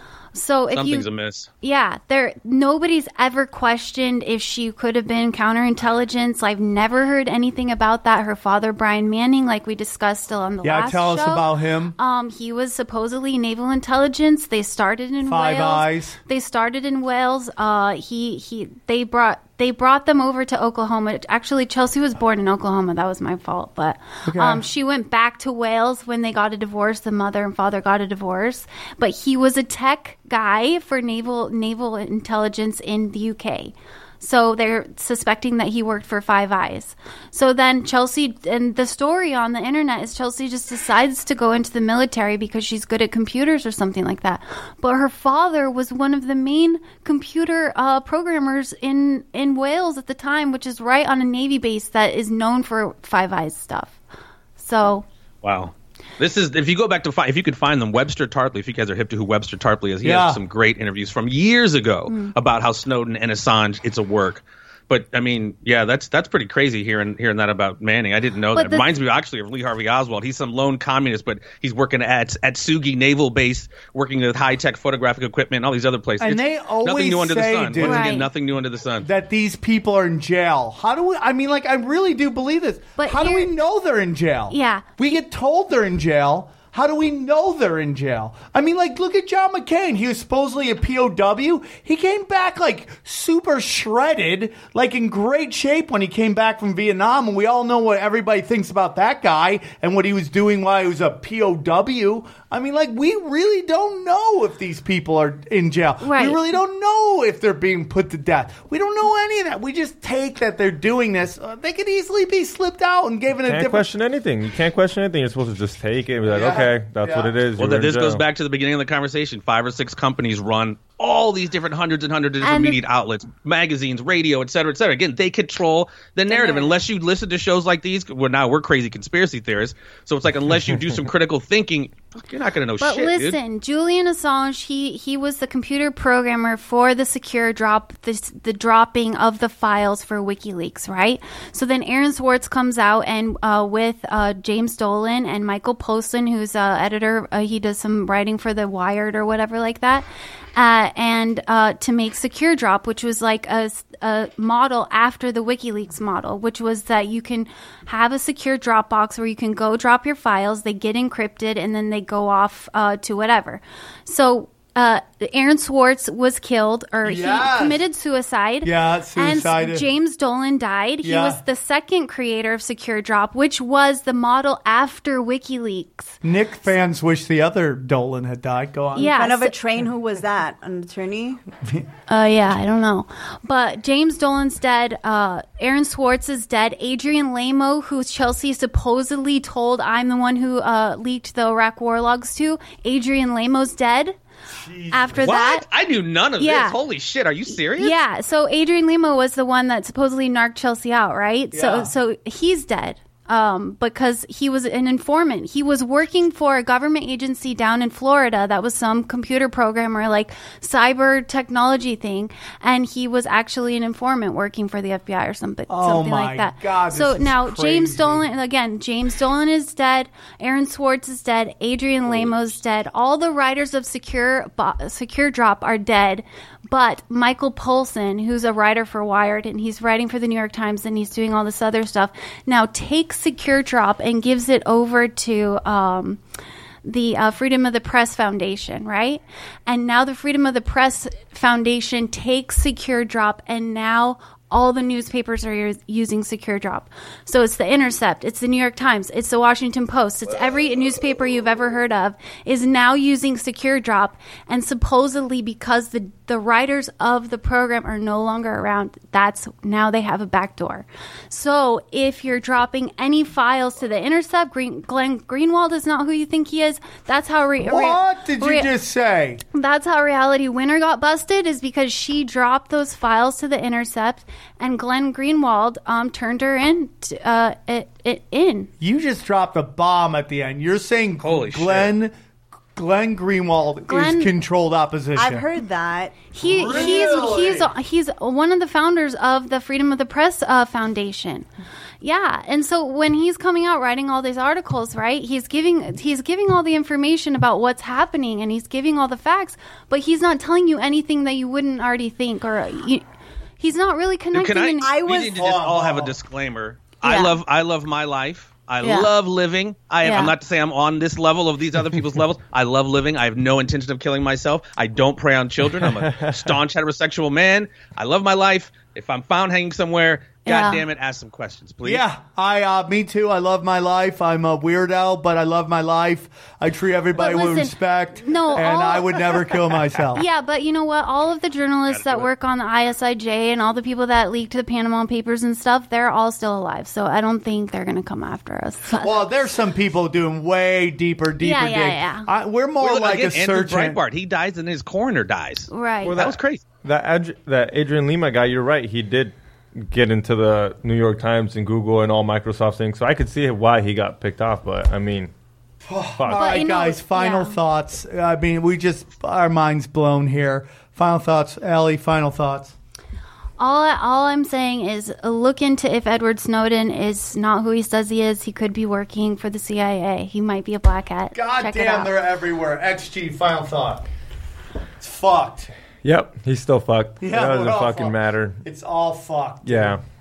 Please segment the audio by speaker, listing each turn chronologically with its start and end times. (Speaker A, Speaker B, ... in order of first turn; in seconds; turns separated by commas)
Speaker A: 0.3-1.1, Speaker B: 0.7-1.5, Speaker A: 1.6-11.5, Speaker C: 10.6-11.9, Speaker A: 12.0-54.0, Speaker C: 15.2-16.2, Speaker C: 24.3-24.6, Speaker A: 54.6-55.0, Speaker B: 55.4-79.1, Speaker C: 60.0-60.4, Speaker A: 62.1-62.3, Speaker A: 68.5-68.9, Speaker C: 76.2-78.1, Speaker A: 77.8-78.3, Speaker C: 79.0-113.9, Speaker A: 83.0-83.5, Speaker A: 84.5-84.8, Speaker A: 106.0-106.4, Speaker D: 113.5-118.2, Speaker C: 116.3-117.3, Speaker B: 117.6-133.4, Speaker A: 122.4-122.8, Speaker A: 126.3-126.8, Speaker A: 132.8-150.1, Speaker A: 150.6-176.2, Speaker C: 167.0-167.8, Speaker C: 168.6-169.9, Speaker C: 171.0-171.4, Speaker C: 176.2-179.2, Speaker A: 179.0-179.6, Speaker E: 179.0-181.4, Speaker A: 182.1-194.2, Speaker C: 194.5-195.4, Speaker A: 194.9-195.7, Speaker B: 195.2-198.0, Speaker A: 196.4-196.8, Speaker A: 197.5-236.2, Speaker C: 201.5-201.9, Speaker C: 215.7-218.3, Speaker A: 236.8-268.7, Speaker C: 267.6-269.4, Speaker A: 269.5-278.7, Speaker C: 278.8-282.1, Speaker B: 281.2-281.9, Speaker C: 282.8-285.4, Speaker A: 283.9-284.3, Speaker E: 285.2-286.2, Speaker A: 286.3-291.5, Speaker C: 286.4-287.7, Speaker A: 292.0-303.0, Speaker A: 303.6-304.9, Speaker B: 304.3-322.0, Speaker E: 304.8-305.4, Speaker C: 305.3-306.2, Speaker E: 307.0-307.4, Speaker E: 308.8-309.1, Speaker A: 310.0-310.3, Speaker A: 320.5-320.8, Speaker C: 321.8-330.2, Speaker A: 327.2-329.3, Speaker A: 330.1-339.2, Speaker B: 331.9-332.3, Speaker C: 338.9-344.0, Speaker A: 341.4-342.3, Speaker B: 342.8-346.6, Speaker A: 345.7-346.1, Speaker D: 346.0-355.3, Speaker C: 355.9-362.8, Speaker D: 356.2-356.5, Speaker A: 356.3-357.6, Speaker A: 363.6-372.1, Speaker C: 371.4-374.1, Speaker C: 375.0-375.7, Speaker D: 376.0-378.6, Speaker C: 377.2-380.0, Speaker D: 379.6-380.0